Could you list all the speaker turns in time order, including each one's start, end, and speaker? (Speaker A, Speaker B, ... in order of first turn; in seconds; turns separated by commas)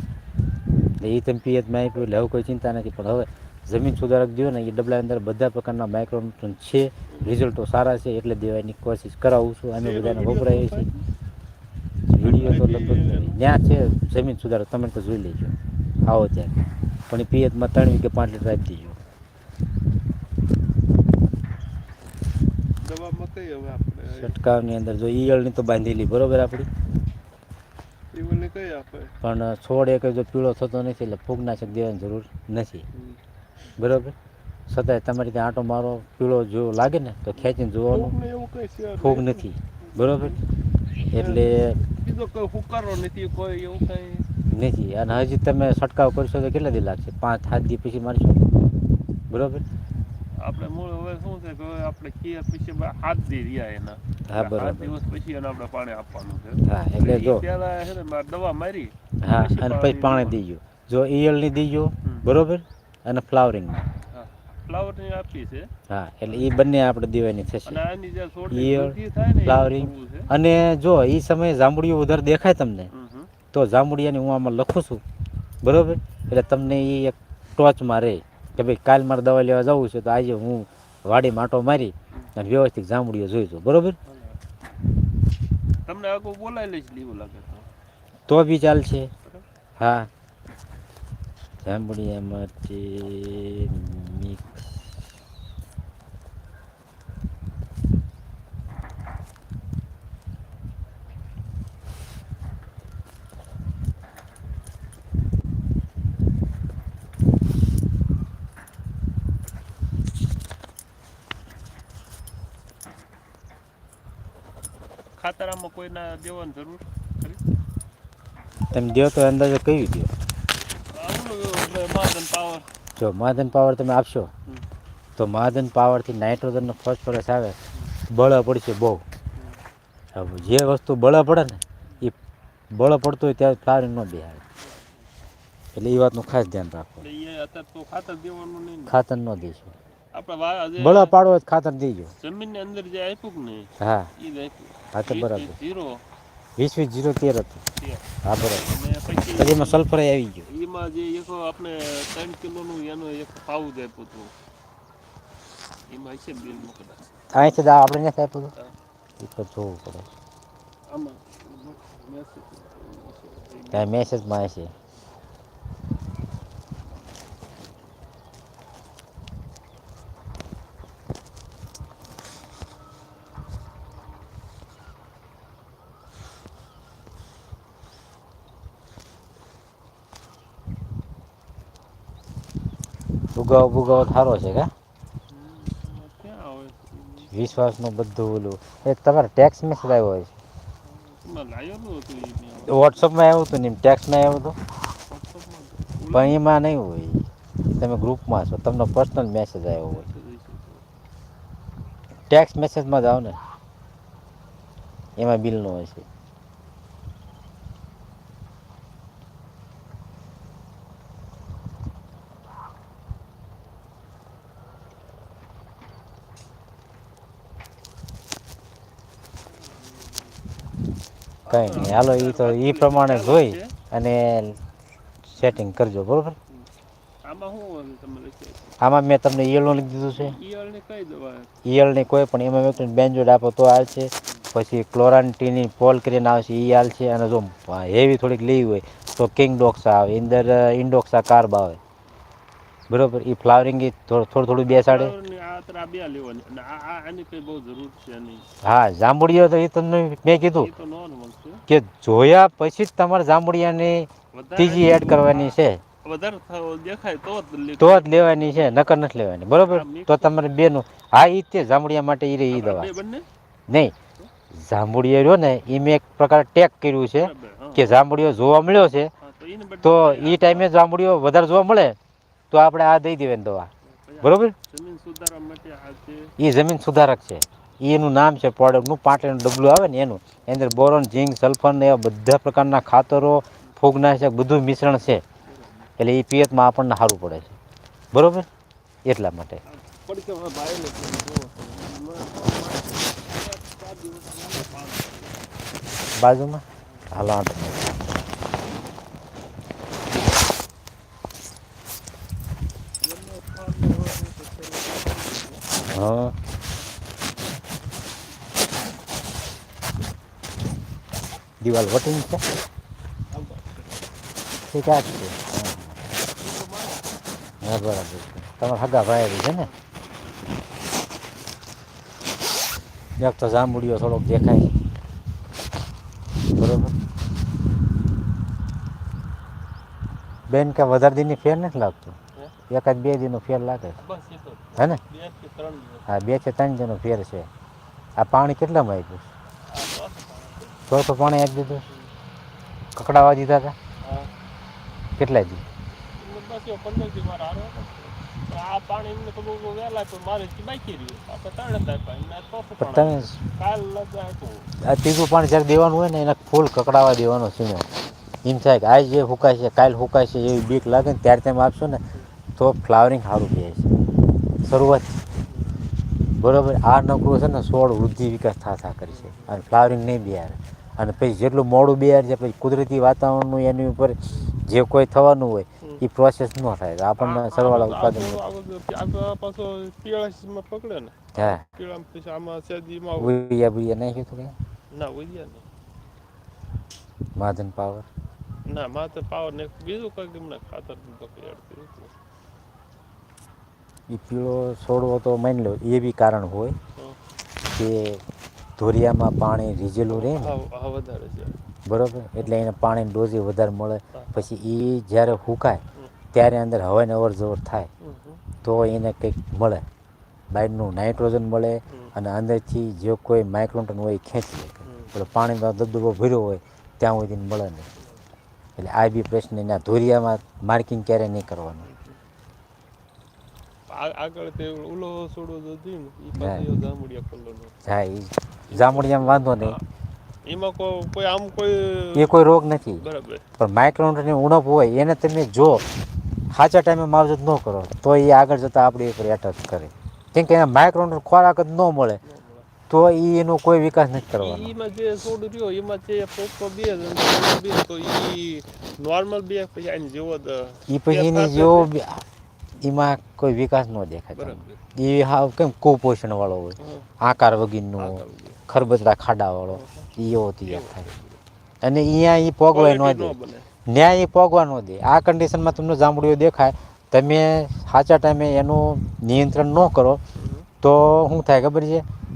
Speaker A: 1.0-10.8, Speaker B: 9.8-11.0, Speaker A: 12.1-19.0, Speaker B: 12.1-13.4, Speaker B: 22.8-24.3, Speaker A: 24.1-26.7, Speaker B: 28.1-29.1, Speaker A: 29.2-32.9, Speaker B: 32.9-33.2, Speaker A: 33.8-34.1, Speaker A: 34.7-38.1, Speaker B: 37.4-40.4, Speaker A: 39.0-40.4, Speaker A: 41.0-41.8, Speaker B: 41.1-44.3, Speaker A: 44.5-48.5, Speaker A: 49.3-49.6, Speaker B: 50.4-60.4, Speaker A: 54.3-54.9, Speaker A: 56.6-57.4, Speaker A: 59.2-63.9, Speaker B: 62.0-62.3, Speaker B: 64.1-65.7, Speaker A: 65.9-67.8, Speaker B: 67.7-70.3, Speaker A: 68.5-72.9, Speaker B: 72.9-73.3, Speaker A: 73.5-75.0, Speaker A: 75.6-84.0, Speaker B: 84.0-84.4, Speaker B: 85.9-87.7, Speaker A: 88.3-89.1, Speaker A: 89.8-90.1, Speaker A: 91.6-94.5, Speaker B: 115.2-117.4, Speaker A: 118.7-120.1, Speaker B: 120.9-122.7, Speaker A: 123.0-124.3, Speaker A: 125.2-127.5, Speaker A: 128.1-129.0, Speaker A: 130.1-132.1, Speaker A: 132.7-134.4, Speaker B: 134.6-134.9, Speaker A: 135.7-137.0, Speaker B: 137.0-138.9, Speaker A: 138.9-139.7, Speaker B: 140.1-141.1, Speaker A: 140.8-142.1, Speaker B: 142.2-146.0, Speaker A: 143.8-144.1, Speaker A: 144.9-145.6, Speaker A: 146.6-147.6, Speaker B: 147.8-149.8, Speaker A: 148.2-148.7, Speaker A: 149.4-150.5, Speaker B: 150.5-154.3, Speaker B: 155.9-157.4, Speaker A: 157.3-158.5, Speaker A: 159.2-160.1, Speaker B: 160.9-164.1, Speaker A: 163.7-164.7, Speaker A: 183.3-184.7, Speaker B: 185.3-187.3, Speaker A: 187.3-190.3, Speaker B: 190.9-192.9, Speaker A: 192.7-194.6, Speaker B: 195.1-196.4, Speaker A: 196.1-200.1, Speaker B: 199.8-200.8, Speaker A: 202.3-203.4, Speaker A: 205.2-206.1, Speaker B: 219.8-220.1, Speaker B: 221.4-223.7, Speaker A: 221.5-224.6, Speaker A: 225.3-226.3, Speaker B: 227.2-228.8, Speaker A: 228.8-230.4, Speaker B: 230.1-231.5, Speaker A: 231.6-241.8, Speaker A: 242.9-245.1, Speaker B: 244.7-248.4, Speaker A: 248.6-250.7, Speaker B: 250.3-251.6, Speaker A: 251.7-255.8, Speaker B: 254.3-258.9, Speaker A: 257.8-262.9, Speaker B: 259.6-260.4, Speaker B: 262.5-263.2, Speaker A: 263.7-263.9, Speaker A: 264.6-269.1, Speaker B: 267.1-268.0, Speaker B: 269.2-270.7, Speaker A: 269.8-271.9, Speaker A: 272.5-273.7, Speaker B: 273.9-276.3, Speaker A: 274.2-274.5, Speaker A: 276.4-285.2, Speaker B: 285.4-285.9, Speaker A: 286.0-287.6, Speaker A: 288.1-288.5, Speaker A: 289.1-289.6, Speaker B: 289.6-295.4, Speaker A: 296.2-298.0, Speaker B: 303.0-305.7, Speaker A: 305.9-306.3, Speaker A: 311.6-312.4, Speaker B: 313.3-314.0, Speaker A: 314.7-315.9, Speaker B: 316.3-317.1, Speaker A: 317.6-319.7, Speaker B: 319.3-319.8, Speaker A: 323.2-324.7, Speaker A: 326.6-326.9, Speaker A: 330.5-332.2, Speaker A: 332.7-334.0, Speaker B: 334.0-336.1, Speaker A: 336.1-337.5, Speaker A: 338.2-339.3, Speaker B: 339.7-340.8, Speaker A: 340.9-341.9, Speaker A: 342.9-343.7, Speaker B: 344.0-344.3, Speaker A: 345.2-345.6, Speaker B: 346.1-354.7, Speaker A: 352.8-353.4, Speaker A: 354.8-357.9, Speaker A: 358.4-362.0, Speaker A: 362.6-363.9, Speaker A: 364.6-365.2, Speaker A: 366.4-378.4, Speaker B: 369.1-369.6, Speaker B: 377.2-383.3, Speaker A: 381.3-381.6, Speaker A: 383.2-384.5, Speaker B: 384.9-385.6, Speaker A: 387.4-388.1, Speaker B: 388.7-392.1, Speaker A: 394.1-396.8, Speaker A: 397.6-398.2, Speaker A: 398.8-400.5, Speaker B: 400.1-401.6, Speaker A: 401.9-407.9, Speaker B: 408.0-408.4, Speaker A: 408.6-409.8, Speaker A: 410.5-417.9, Speaker B: 411.9-412.1, Speaker B: 414.8-415.1, Speaker A: 418.8-421.9, Speaker B: 421.8-422.2, Speaker B: 423.9-427.8, Speaker A: 426.4-426.6, Speaker A: 427.8-429.8, Speaker B: 428.7-429.8, Speaker B: 430.4-432.4, Speaker A: 432.1-433.0, Speaker B: 432.9-433.4, Speaker A: 433.6-435.9, Speaker A: 436.5-442.2, Speaker B: 442.2-442.6, Speaker A: 442.9-444.7, Speaker B: 444.3-451.9, Speaker A: 450.9-452.2, Speaker A: 452.8-461.1, Speaker B: 454.3-454.8, Speaker B: 456.8-457.1, Speaker B: 458.0-458.6, Speaker B: 459.7-460.1, Speaker B: 460.6-461.4, Speaker A: 461.8-470.2, Speaker B: 462.7-463.7, Speaker B: 470.4-470.7, Speaker A: 470.8-472.0